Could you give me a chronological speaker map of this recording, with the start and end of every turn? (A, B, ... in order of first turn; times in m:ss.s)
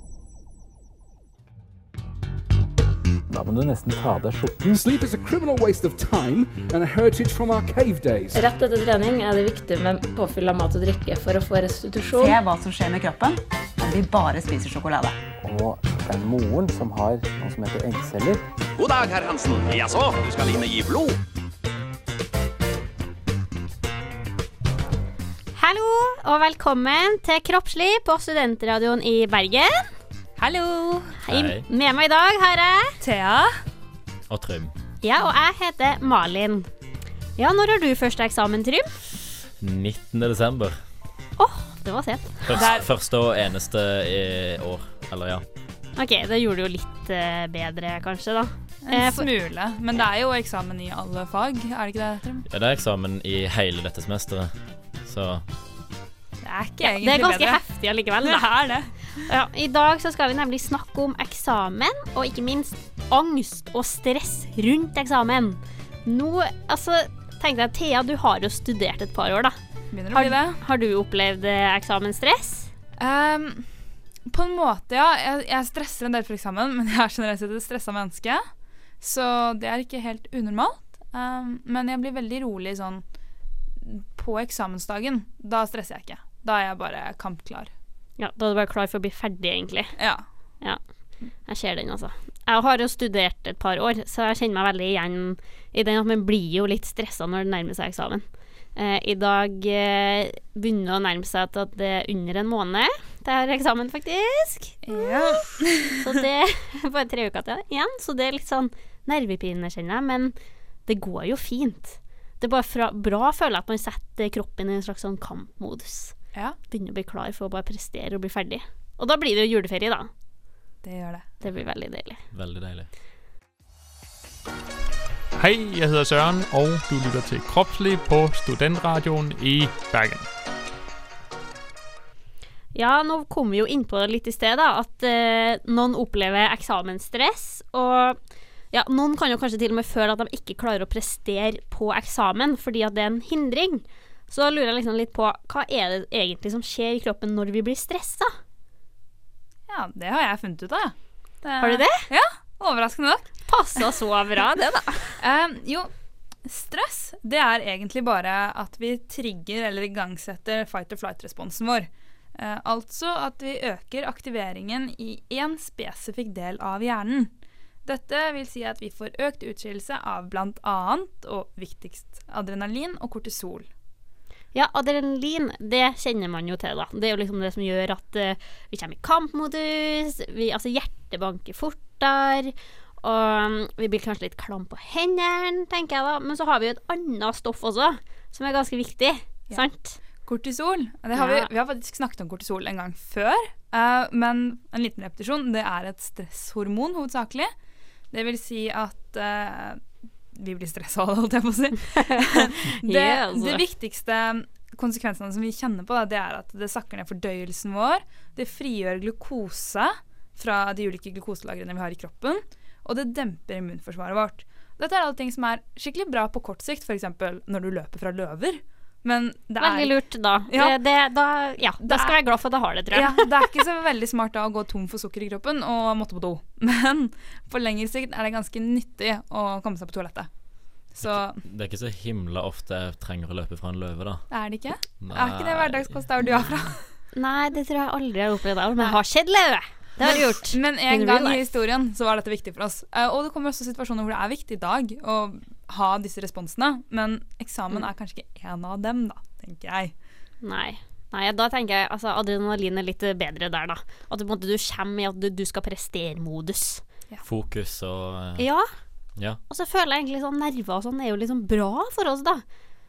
0:03.3-0:04.8 A
0:04.8-0:08.4 B
0:08.3-0:12.4 C
0:12.2-0:15.2 D
0:15.4-0:18.4 A
0:18.8-0:21.2 E
0:25.6-0:29.9 F
0:30.4-0:31.2 G
0:31.2-0:33.0 F
0:31.3-0:31.6 H
0:33.0-0:33.5 G
0:34.3-0:34.7 H
0:35.0-0:36.7 F
0:37.4-0:38.9 F
0:39.6-0:40.8 H
0:41.4-0:42.6 F
0:42.4-0:45.4 H
0:42.5-0:42.9 G
0:46.0-0:49.3 F
0:48.8-0:52.4 G
0:52.5-0:55.4 H
0:56.4-0:57.6 G
0:56.8-0:58.6 F
0:58.2-0:59.0 G
0:59.2-1:09.6 F
1:09.9-1:10.6 G
1:10.1-1:12.7 F
1:13.0-1:18.4 G
1:19.0-1:23.0 G
1:23.8-1:27.7 G
1:28.2-1:30.0 F
1:30.0-1:30.2 G
1:30.6-1:38.2 F
1:38.7-1:50.3 F
1:44.8-1:46.0 G
1:50.9-2:00.1 F
2:00.8-2:01.3 G
2:01.4-2:02.2 F
2:02.3-2:02.9 H
2:05.4-2:10.2 I
2:12.7-2:18.2 F
2:18.7-2:28.3 F
2:29.7-2:33.3 G
2:31.6-2:32.0 F
2:33.5-2:35.2 F
2:35.2-2:35.9 G
2:36.4-2:47.3 G
2:47.8-2:53.7 G
2:54.5-3:10.0 F
3:10.2-3:17.5 G
3:11.1-3:11.5 F
3:18.1-3:40.8 G
3:22.0-3:23.6 F
3:39.6-3:43.3 F
3:41.8-3:42.2 G
3:42.9-3:50.3 G
3:50.9-3:51.4 G
3:51.0-3:54.3 H
3:54.3-3:56.8 G
3:55.0-3:56.7 H
3:57.1-4:01.5 F
4:00.0-4:09.9 G
4:10.4-4:16.8 F
4:17.2-4:18.5 H
4:18.4-4:18.7 F
4:19.5-4:22.4 F